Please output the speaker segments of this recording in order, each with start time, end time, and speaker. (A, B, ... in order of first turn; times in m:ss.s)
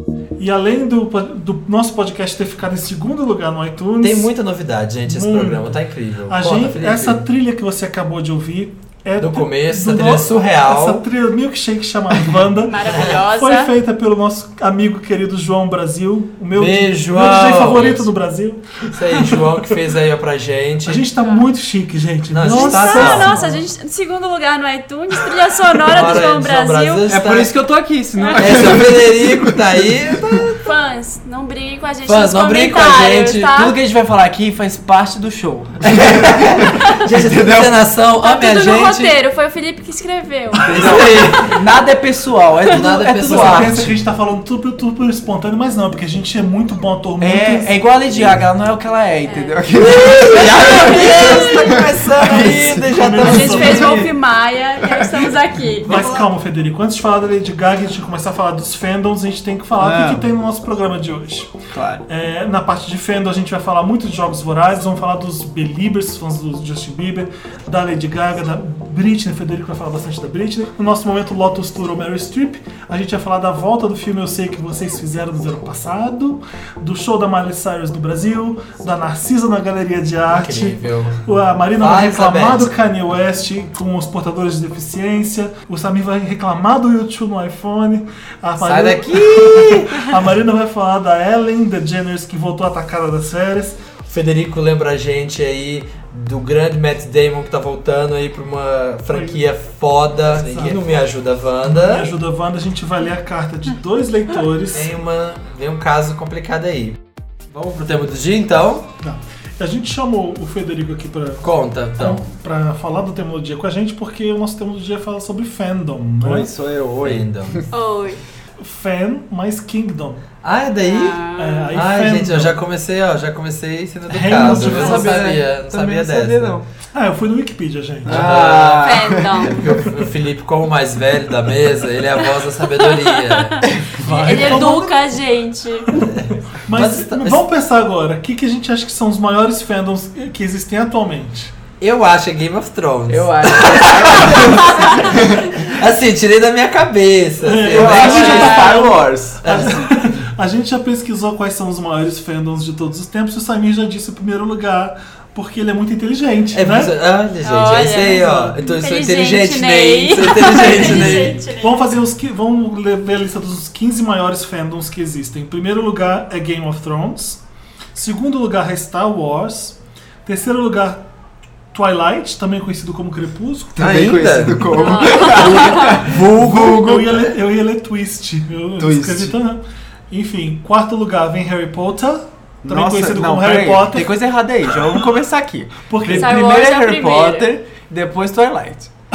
0:00.4-0:04.3 A
0:04.0-0:07.2 B
0:05.0-0:05.8 A
0:06.3-0:19.5 A
0:09.2-0:11.0 B
0:12.6-0:13.7 C
0:12.9-0:13.2 B
0:16.5-0:18.1 B
0:18.9-0:21.1 B
0:20.8-0:23.6 A
0:21.2-0:21.4 C
0:22.3-0:23.3 B
0:22.5-0:27.1 C
0:25.9-0:27.5 B
0:27.1-0:29.5 D
0:28.2-0:28.4 C
0:28.4-0:30.6 B
0:30.6-0:33.8 C
0:32.0-0:33.6 B
0:33.5-0:37.7 D
0:35.8-0:39.2 B
0:38.2-0:41.2 C
0:40.6-0:41.6 B
0:40.7-0:43.8 D
0:40.8-0:41.0 A
0:42.6-0:44.0 B
0:43.2-0:47.7 A
0:47.2-0:54.1 D
0:49.2-0:49.6 C
0:49.8-0:54.0 B
0:50.5-0:51.7 C
0:52.3-0:54.1 A
0:53.2-0:56.0 C
0:54.8-0:55.3 D
0:55.8-0:56.2 B
0:55.8-1:01.5 A
0:59.8-1:00.2 D
1:01.7-1:02.0 D
1:02.1-1:33.8 A
1:20.3-1:21.2 B
1:21.8-1:22.7 B
1:28.6-1:30.1 B
1:34.1-1:42.1 B
1:39.1-1:39.4 A
1:40.4-1:40.8 A
1:41.6-1:45.0 A
1:44.7-1:47.0 B
1:47.5-1:48.9 B
1:49.0-1:51.4 A
1:51.4-1:52.2 B
1:52.0-1:56.5 A
1:56.2-1:57.7 D
1:57.0-1:57.6 B
1:57.7-1:58.2 C
1:58.6-2:00.2 A
2:00.4-2:06.6 B
2:00.8-2:01.7 C
2:01.4-2:02.5 A
2:04.1-2:05.2 A
2:04.3-2:06.6 D
2:06.9-2:08.3 A
2:08.0-2:09.6 D
2:08.0-2:14.7 B
2:08.8-2:09.8 C
2:12.2-2:16.1 C
2:13.7-2:14.0 D
2:14.0-2:15.0 A
2:16.1-2:17.4 B
2:16.6-2:21.5 A
2:21.8-2:28.7 B
2:23.1-2:25.4 D
2:24.5-2:25.3 C
2:27.4-2:36.9 A
2:27.7-2:29.9 D
2:28.0-2:28.6 C
2:29.4-2:29.9 B
2:36.5-2:41.4 B
2:37.4-2:41.8 C
2:38.2-2:38.6 A
2:40.6-2:47.4 A
2:47.9-2:51.0 A
2:51.7-2:53.9 A
2:53.8-2:56.2 D
2:53.8-2:57.4 B
2:54.7-2:56.0 C
2:55.1-3:04.2 A
2:58.8-2:59.4 D
3:02.6-3:08.9 D
3:05.9-3:06.4 A
3:06.0-3:07.5 C